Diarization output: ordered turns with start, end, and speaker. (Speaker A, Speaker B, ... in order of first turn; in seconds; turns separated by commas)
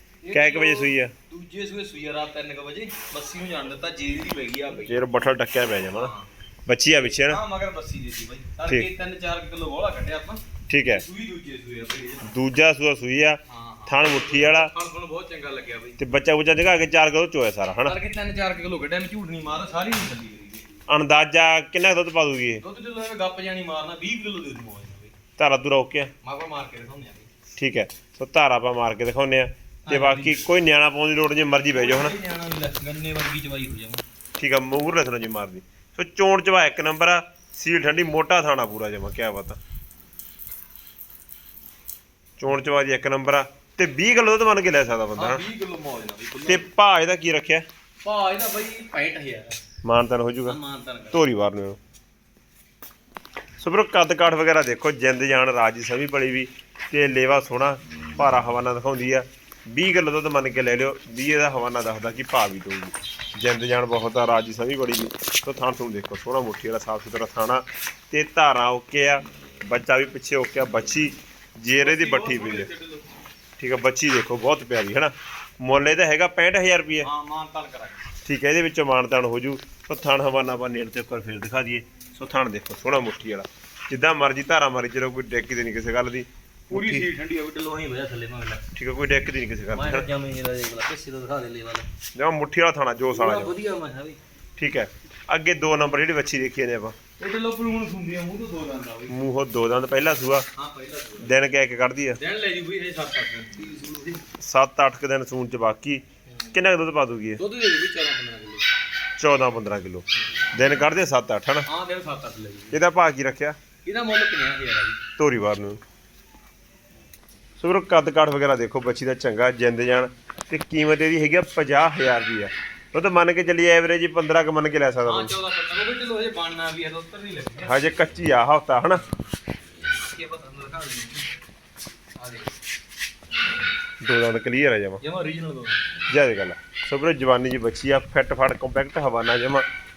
Speaker A: 0.2-5.0, Speaker B: 0.3-1.1, Speaker B: 4.8-6.1, Speaker A: 5.9-6.3, Speaker B: 6.7-7.4, Speaker A: 7.2-12.3, Speaker B: 10.7-11.0, Speaker B: 12.2-14.7, Speaker A: 13.4-16.0, Speaker B: 16.0-17.9, Speaker A: 17.8-20.8, Speaker B: 20.9-22.6, Speaker A: 22.6-25.1, Speaker B: 25.4-26.1, Speaker A: 26.2-27.3, Speaker B: 27.6-32.1, Speaker A: 29.8-30.5, Speaker A: 31.7-34.0, Speaker B: 34.4-39.6, Speaker B: 42.4-45.4, Speaker A: 45.1-46.7, Speaker B: 46.5-47.6, Speaker A: 48.0-49.6, Speaker B: 49.8-50.6, Speaker A: 50.4-51.2, Speaker B: 51.1-51.8, Speaker B: 53.6-72.7, Speaker A: 71.8-73.1, Speaker B: 73.6-77.1, Speaker A: 77.0-78.1, Speaker B: 78.2-87.1, Speaker A: 86.7-88.6, Speaker B: 88.7-90.0, Speaker A: 89.7-91.9, Speaker B: 92.1-93.5, Speaker A: 93.1-94.2, Speaker B: 94.6-96.9, Speaker A: 97.2-99.2, Speaker B: 99.1-100.5, Speaker A: 100.5-101.4, Speaker B: 101.2-102.2, Speaker A: 102.2-104.3, Speaker B: 104.4-107.4, Speaker A: 106.3-106.6, Speaker A: 107.4-108.7, Speaker B: 109.2-111.7, Speaker A: 111.7-112.8, Speaker B: 112.7-113.6, Speaker A: 113.8-115.0, Speaker B: 115.2-115.8, Speaker B: 117.6-125.3, Speaker A: 125.0-127.9, Speaker B: 127.6-129.0, Speaker A: 129.9-131.3, Speaker A: 132.2-132.6, Speaker B: 134.0-135.0, Speaker A: 135.0-135.9, Speaker B: 136.1-139.7